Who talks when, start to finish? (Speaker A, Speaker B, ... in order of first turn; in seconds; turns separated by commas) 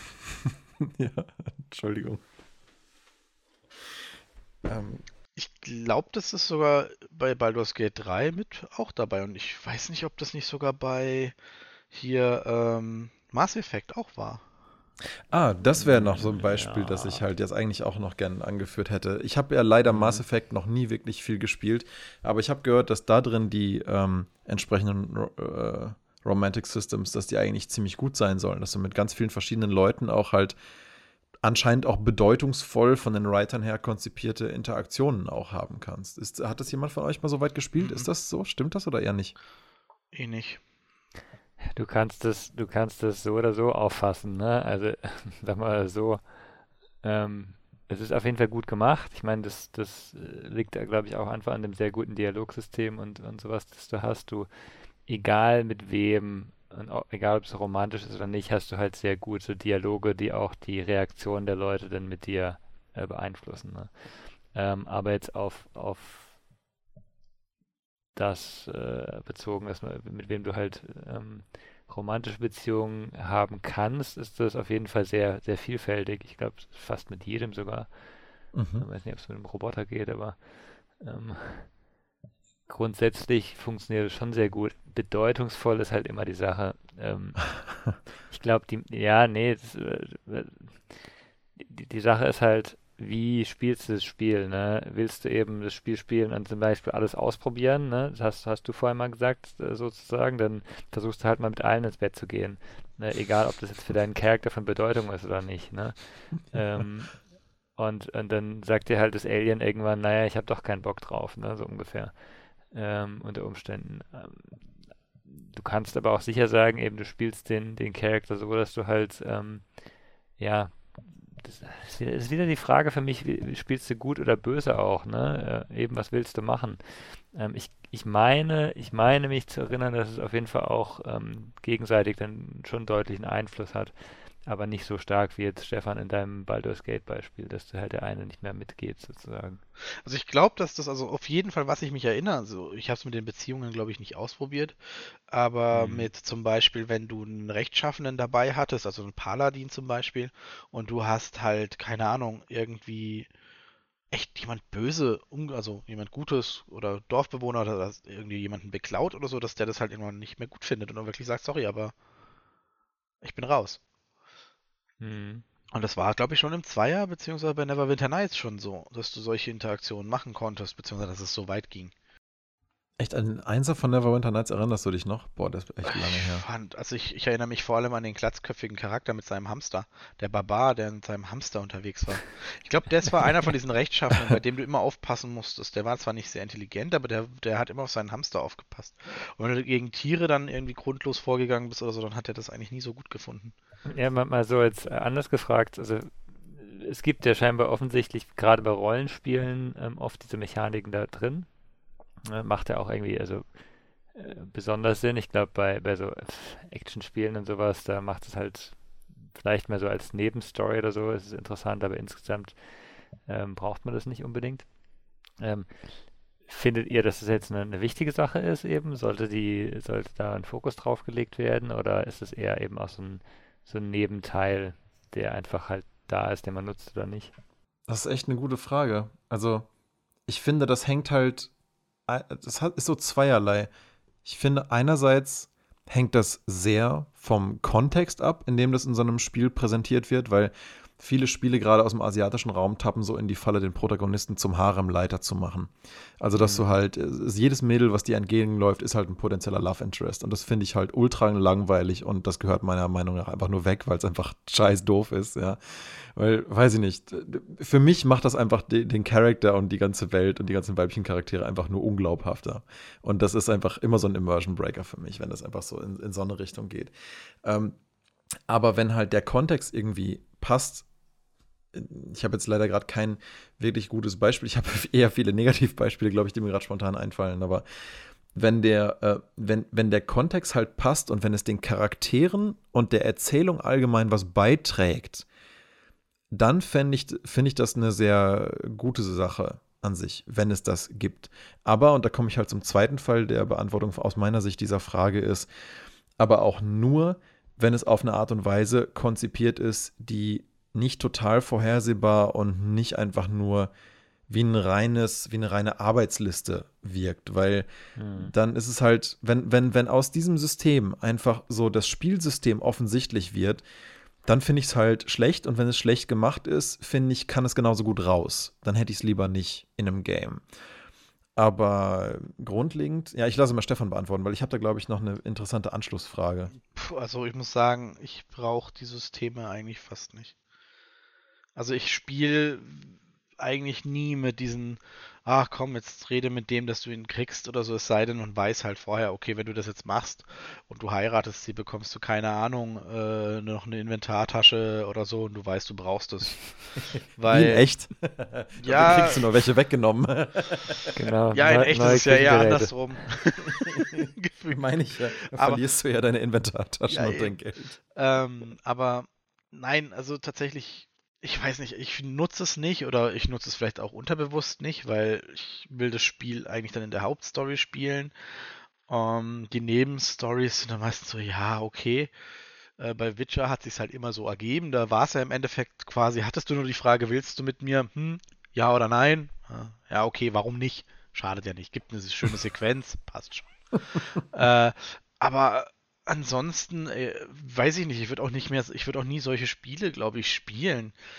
Speaker A: 0.3-2.2, Speaker A: 4.7-5.0, Speaker B: 5.4-11.3, Speaker B: 11.9-14.4, Speaker A: 15.3-30.6, Speaker C: 15.8-17.2, Speaker C: 19.9-20.2, Speaker A: 31.4-39.4, Speaker B: 37.8-38.1, Speaker B: 40.1-40.6, Speaker C: 41.7-46.3, Speaker C: 47.0-54.5, Speaker C: 55.0-66.3, Speaker C: 68.2-77.9, Speaker A: 78.5-78.9, Speaker C: 78.8-81.7, Speaker C: 82.7-87.5, Speaker C: 88.3-91.1, Speaker C: 91.6-107.2, Speaker C: 107.8-112.1, Speaker C: 112.7-114.7, Speaker C: 115.3-119.7, Speaker C: 120.4-133.9, Speaker C: 134.4-139.6, Speaker B: 140.0-144.8, Speaker B: 145.3-153.3, Speaker C: 145.7-146.1, Speaker B: 154.1-161.9, Speaker B: 163.2-163.8, Speaker C: 165.0-165.4, Speaker B: 165.7-171.9, Speaker A: 173.0-176.5, Speaker B: 175.8-193.5, Speaker C: 193.9-201.5, Speaker C: 202.3-203.5, Speaker C: 204.1-212.6, Speaker C: 213.2-214.7, Speaker C: 215.4-215.7, Speaker C: 216.5-227.3, Speaker A: 227.9-229.7, Speaker A: 230.3-231.5, Speaker A: 232.1-233.7, Speaker A: 234.2-266.9, Speaker C: 246.4-246.7, Speaker A: 267.4-267.8, Speaker A: 268.5-270.9, Speaker A: 271.7-277.6, Speaker A: 278.3-285.3, Speaker A: 286.3-295.5, Speaker A: 296.2-303.7, Speaker A: 304.3-313.6, Speaker C: 308.0-308.3, Speaker A: 314.2-320.4, Speaker A: 321.4-326.5, Speaker B: 326.7-330.3, Speaker B: 331.6-346.5, Speaker A: 346.8-350.9, Speaker B: 347.2-347.6, Speaker B: 348.6-349.3, Speaker C: 351.0-352.7, Speaker B: 351.3-355.6, Speaker A: 353.5-357.8, Speaker B: 356.9-357.3, Speaker B: 357.9-368.1, Speaker B: 368.9-372.1, Speaker B: 372.8-383.5, Speaker B: 384.3-390.9